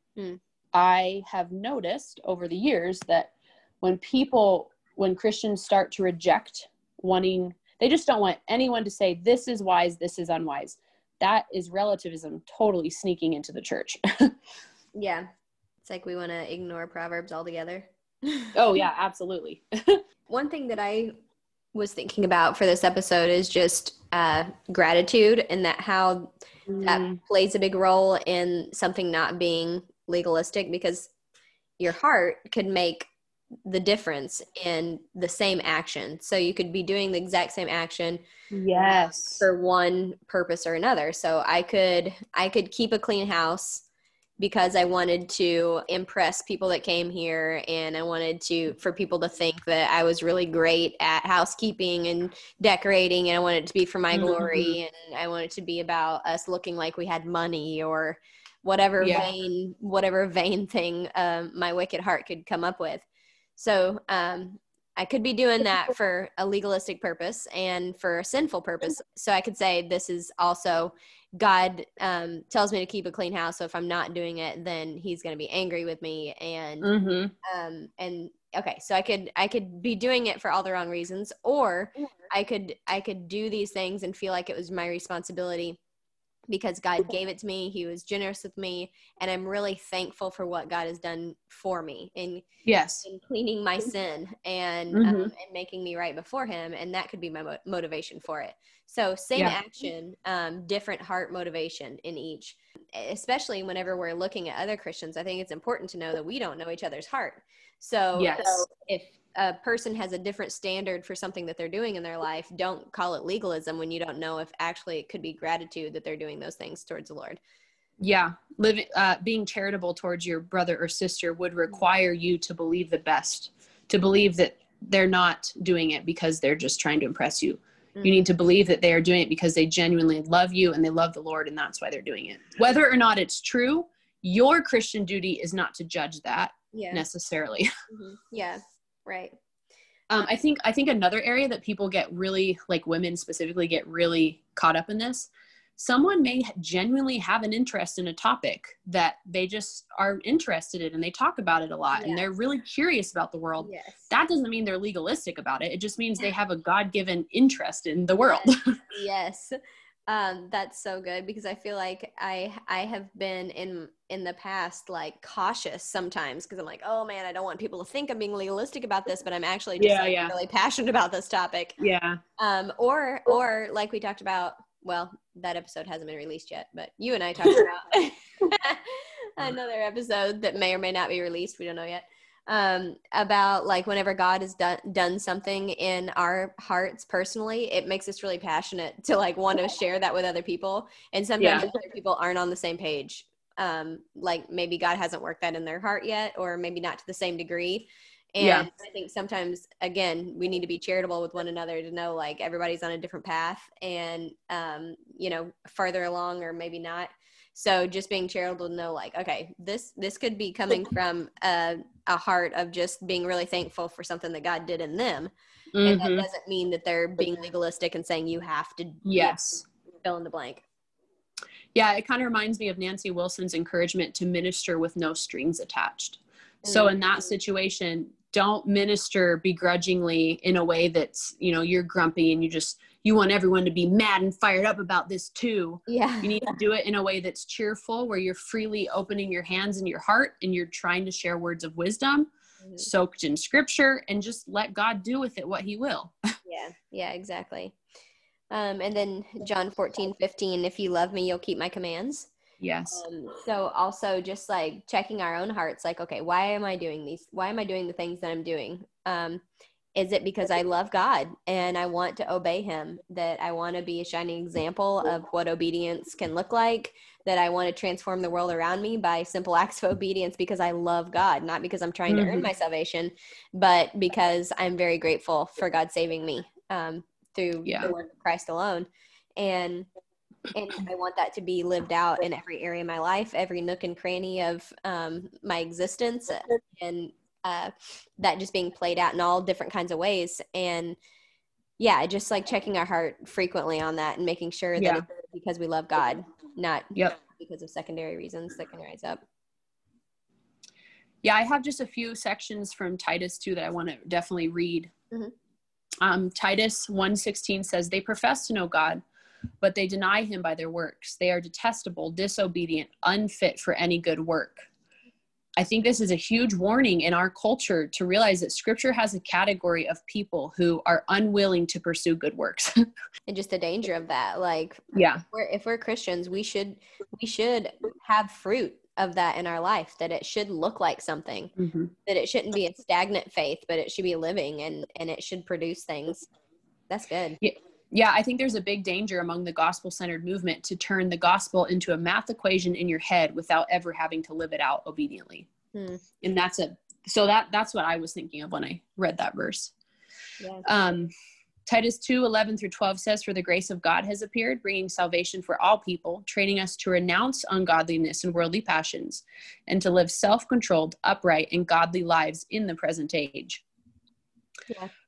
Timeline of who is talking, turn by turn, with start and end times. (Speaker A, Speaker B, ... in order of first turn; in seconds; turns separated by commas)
Speaker A: 0.7-14.3, Speaker B: 14.9-15.3, Speaker B: 15.8-18.6, Speaker A: 18.5-20.0, Speaker B: 20.3-21.1, Speaker B: 21.7-31.1, Speaker A: 26.7-27.2, Speaker B: 31.8-33.1, Speaker B: 33.7-38.2, Speaker A: 38.5-39.5, Speaker B: 39.4-43.9, Speaker B: 44.4-63.0, Speaker A: 54.1-54.8, Speaker A: 59.0-59.3, Speaker B: 63.6-76.9, Speaker A: 76.8-77.3, Speaker B: 77.4-85.8, Speaker B: 86.5-92.5, Speaker A: 92.7-93.0, Speaker B: 93.0-117.4, Speaker A: 94.9-95.3, Speaker A: 108.2-108.6, Speaker A: 118.0-137.7, Speaker B: 128.0-128.3, Speaker B: 136.7-137.0, Speaker B: 137.9-139.4, Speaker A: 140.1-158.7, Speaker B: 151.9-152.3, Speaker B: 153.6-154.1, Speaker B: 158.2-159.6, Speaker B: 160.1-171.8, Speaker A: 169.8-170.3, Speaker A: 171.8-172.2, Speaker B: 172.4-215.3, Speaker A: 191.4-191.7, Speaker A: 198.4-198.7, Speaker A: 215.7-216.3, Speaker B: 215.8-219.4, Speaker A: 219.1-219.6, Speaker B: 220.0-220.6, Speaker A: 221.7-242.3, Speaker B: 226.6-226.9, Speaker B: 235.9-236.6, Speaker A: 242.8-246.2, Speaker B: 246.5-247.8, Speaker B: 248.5-252.3, Speaker A: 252.6-253.0, Speaker B: 252.9-259.4, Speaker B: 259.9-279.9, Speaker A: 272.1-272.5, Speaker A: 277.7-277.9, Speaker B: 280.5-291.0, Speaker B: 291.8-299.2, Speaker A: 294.8-295.0, Speaker A: 301.2-304.9, Speaker A: 306.0-309.0, Speaker A: 309.6-314.7, Speaker A: 315.6-322.7, Speaker B: 323.3-331.5, Speaker A: 324.9-325.2, Speaker A: 331.6-331.9, Speaker B: 332.1-336.3, Speaker B: 336.9-337.4, Speaker A: 337.4-345.5, Speaker B: 345.7-346.0, Speaker A: 346.2-349.7, Speaker B: 350.4-350.7, Speaker A: 350.6-351.1, Speaker A: 351.7-363.6